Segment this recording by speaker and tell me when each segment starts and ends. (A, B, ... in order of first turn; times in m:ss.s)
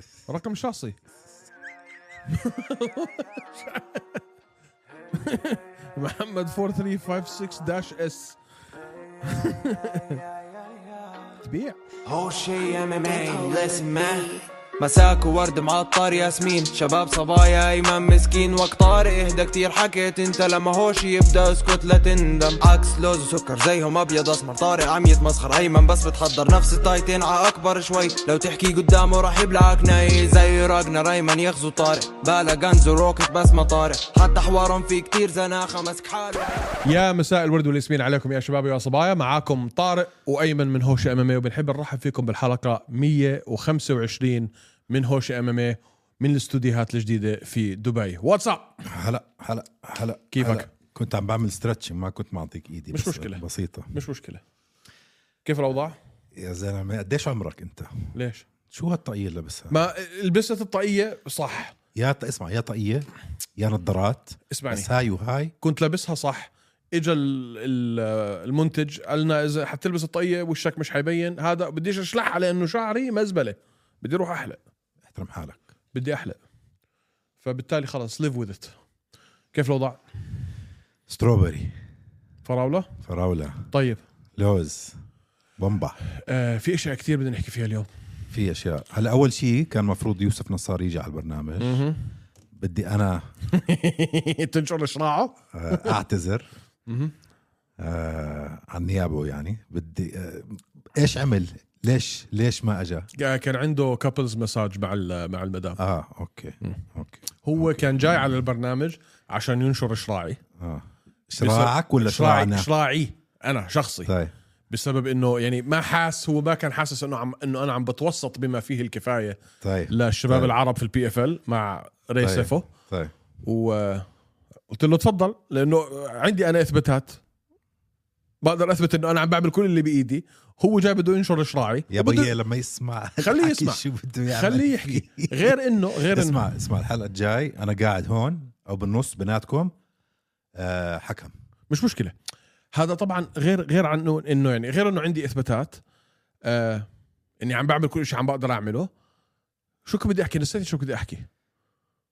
0:00.3-0:01.0 A
0:02.3-0:04.2 A
0:05.1-0:08.4 A
0:09.2-0:10.2 A
0:11.4-0:11.8 A
0:12.0-0:36.7 B
0:36.8-0:48.8 A
0:48.8-0:53.9 C
0:50.3-0:50.7 A
0:52.9-0:54.4 A
0:55.4-0:56.0 A
0:56.3-0:58.1 C
0:58.1-0:58.4 A
0:58.7-0:59.8 C
0:59.7-1:01.8 A
1:01.9-1:05.5 C
1:04.5-1:04.9 A
1:05.6-1:14.6 A
1:15.1-1:15.6 C
1:15.9-1:16.4 A
1:17.4-1:18.8 A
1:19.5-1:20.0 A
1:21.1-1:21.8 C
1:22.4-1:22.9 A
1:23.0-1:23.7 C
1:23.7-1:24.0 A
1:24.4-1:25.0 C
1:25.6-1:26.0 C
1:26.1-1:27.9 A
1:28.3-1:31.8 C
1:31.6-1:32.0 A
1:32.5-1:33.2 C
1:33.5-1:35.9 A
1:35.5-1:36.5 C
1:36.9-1:37.1 A
1:37.8-1:43.1 C
1:43.2-1:45.8 A
1:45.8-1:48.4 C
1:47.4-1:50.4 A
1:50.6-1:52.7 C
1:51.4-1:54.1 A
1:54.1-1:54.3 C
1:54.7-1:59.4 A
1:59.6-2:00.5 C
1:59.9-2:02.7 A
2:02.2-2:03.1 C
2:03.4-2:04.1 A
2:04.7-2:07.2 A
2:08.4-2:12.3 A
2:11.9-2:19.7 C
2:13.2-2:16.5 A
2:20.6-2:21.3 C
2:21.7-2:22.1 A
2:22.7-2:25.8 A
2:26.4-2:26.8 A
2:27.4-2:28.9 A
2:29.8-2:31.3 A